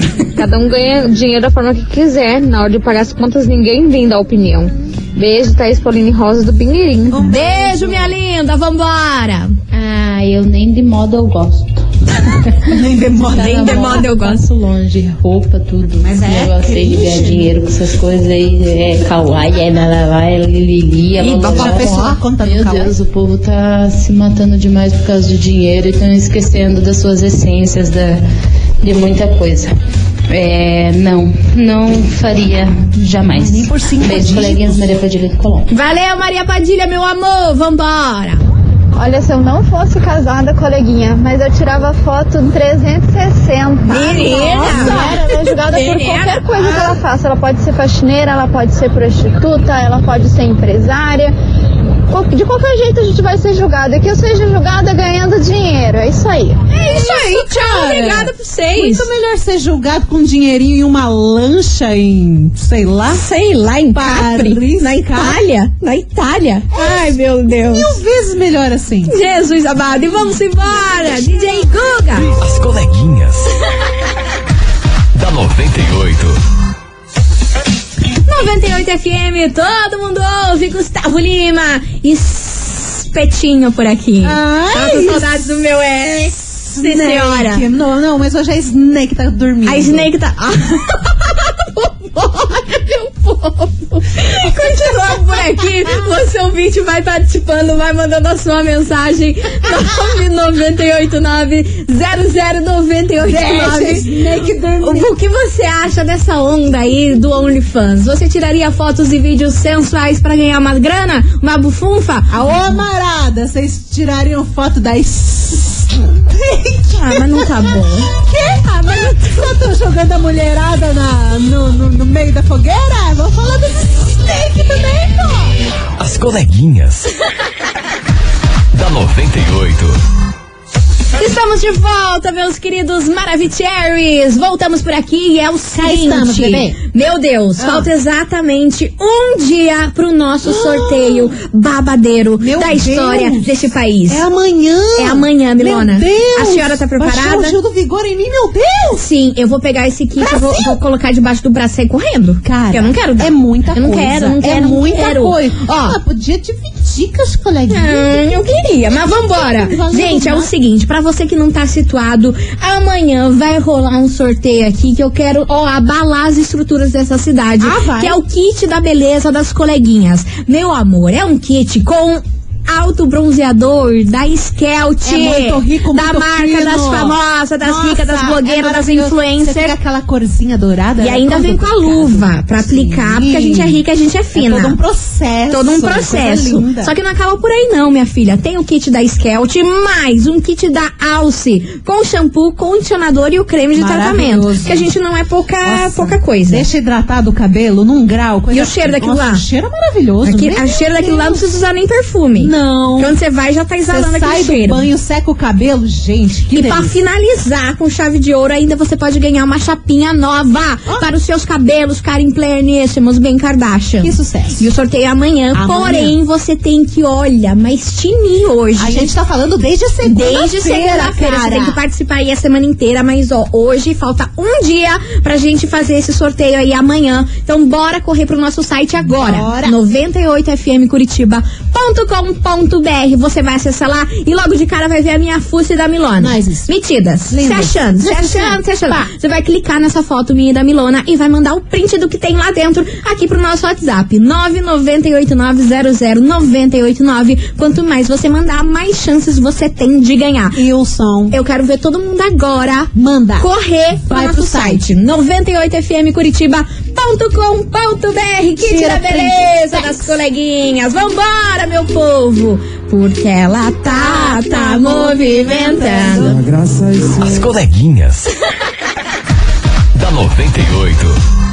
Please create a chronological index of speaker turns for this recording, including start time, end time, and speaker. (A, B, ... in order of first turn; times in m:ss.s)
0:00.4-0:07.2 A
0:07.1-0:08.2 B
0:07.2-0:09.6 C
0:09.7-0:11.8 D
0:12.6-0:14.1 B
0:12.7-0:28.2 D
0:13.4-0:14.4 C
0:16.0-0:17.5 B
0:21.2-0:22.0 C
0:21.5-0:22.9 B
0:28.8-0:29.7 D
0:30.3-0:35.7 D
0:33.3-0:34.9 B
0:35.7-0:38.4 C
0:39.0-0:51.4 E
0:43.9-0:46.4 C
0:44.7-0:45.1 B
0:46.6-0:47.0 B
0:52.1-0:56.7 E
0:56.7-0:59.1 C
0:56.8-1:03.2 B
1:03.1-1:08.0 C
1:03.9-1:05.4 B
1:06.8-1:09.1 B
1:09.1-1:12.3 C
1:12.3-1:13.5 F
1:15.1-1:16.4 F
1:18.2-1:27.6 C
1:24.2-1:25.4 B
1:26.7-1:30.1 B
1:29.7-1:44.2 C
1:43.2-1:45.1 B
1:44.8-1:52.8 C
1:52.3-2:05.6 B
1:57.0-1:58.1 C
2:06.0-2:07.1 F
2:08.7-2:10.0 F
2:11.2-2:24.2 C
2:15.8-2:16.8 B
2:17.6-2:17.9 B
2:20.4-2:21.3 B
2:22.4-2:23.5 B
2:24.1-2:29.0 B
2:25.0-2:27.6 C
2:28.9-2:36.0 C
2:30.2-2:30.8 B
2:32.4-2:40.5 B
2:37.7-2:59.8 C
2:47.6-2:48.2 B
2:55.0-3:03.8 B
3:01.0-3:04.8 C
3:04.4-3:06.9 B
3:05.5-3:16.7 C
3:13.8-3:14.8 B
3:15.6-3:21.4 B
3:18.5-3:19.4 C
3:20.2-3:24.9 C
3:22.4-3:23.1 B
3:23.9-3:26.9 B
3:26.5-3:39.1 C
3:34.0-3:34.6 B
3:35.5-3:36.2 B
3:38.8-3:41.8 B
3:40.0-4:10.6 C
3:49.0-3:49.8 B
3:56.2-3:56.7 B
3:57.3-3:59.1 B
4:10.6-4:11.4 B
4:11.3-4:26.4 C
4:13.0-4:13.5 B
4:14.1-4:14.8 B
4:18.6-4:20.2 B
4:23.9-4:26.7 B
4:26.8-4:28.3 F
4:29.9-4:31.2 F